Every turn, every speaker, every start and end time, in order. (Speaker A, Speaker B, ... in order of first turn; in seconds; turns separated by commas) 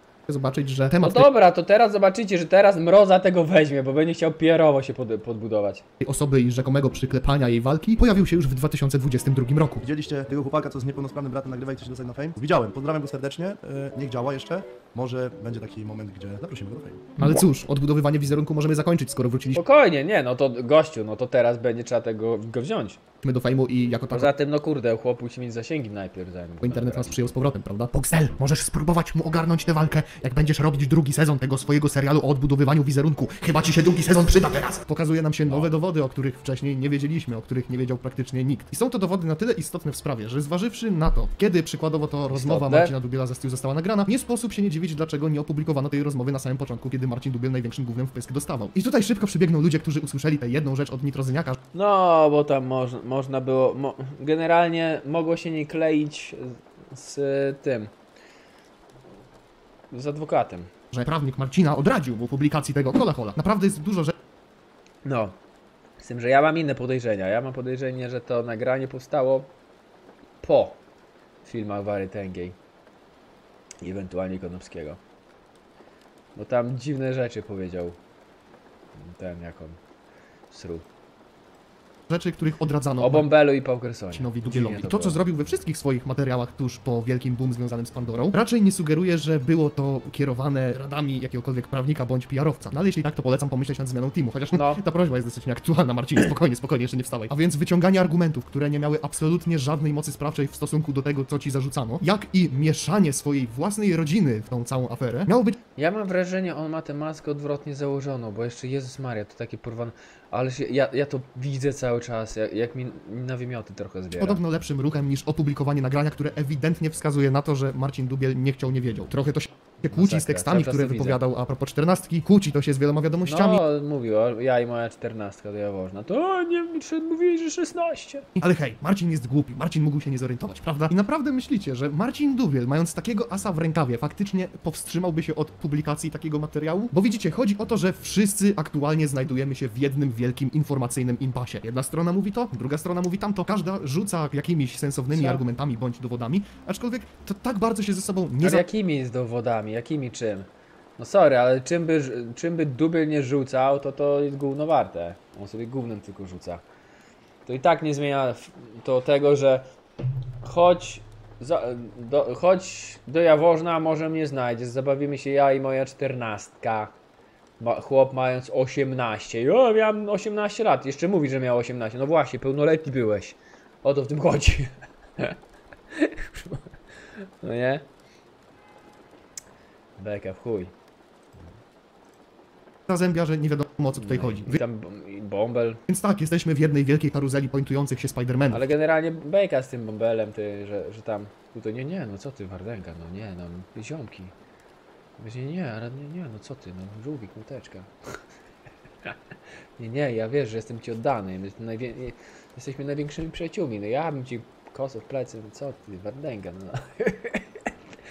Speaker A: 0.3-1.3, Speaker B: 0.9-5.8, Speaker A: 6.0-9.8, Speaker C: 9.8-17.1, Speaker A: 17.2-19.6, Speaker B: 19.5-23.0, Speaker A: 23.2-24.3, Speaker B: 24.1-27.3, Speaker A: 26.6-51.6, Speaker B: 42.3-42.9, Speaker B: 51.7-57.9, Speaker B: 59.9-60.7, Speaker A: 60.9-64.2, Speaker B: 65.0-65.4, Speaker B: 66.0-69.5, Speaker B: 70.4-70.8, Speaker B: 71.4-72.5, Speaker B: 73.8-75.0, Speaker B: 76.3-78.0, Speaker B: 79.0-79.8, Speaker B: 80.5-80.8, Speaker A: 82.1-83.3, Speaker B: 83.0-85.2, Speaker A: 84.1-105.6, Speaker B: 94.5-94.8, Speaker B: 105.8-114.4, Speaker A: 114.2-123.6, Speaker B: 119.9-121.2, Speaker B: 123.2-128.2, Speaker A: 128.3-148.7, Speaker B: 145.1-145.4, Speaker B: 148.4-156.6, Speaker B: 157.4-159.7, Speaker B: 160.4-166.9, Speaker B: 167.6-175.4, Speaker B: 175.9-177.8, Speaker B: 180.0-180.7, Speaker A: 182.9-184.6, Speaker B: 183.9-185.8, Speaker A: 185.9-188.7, Speaker B: 188.5-194.3, Speaker B: 195.2-197.9, Speaker B: 199.8-207.4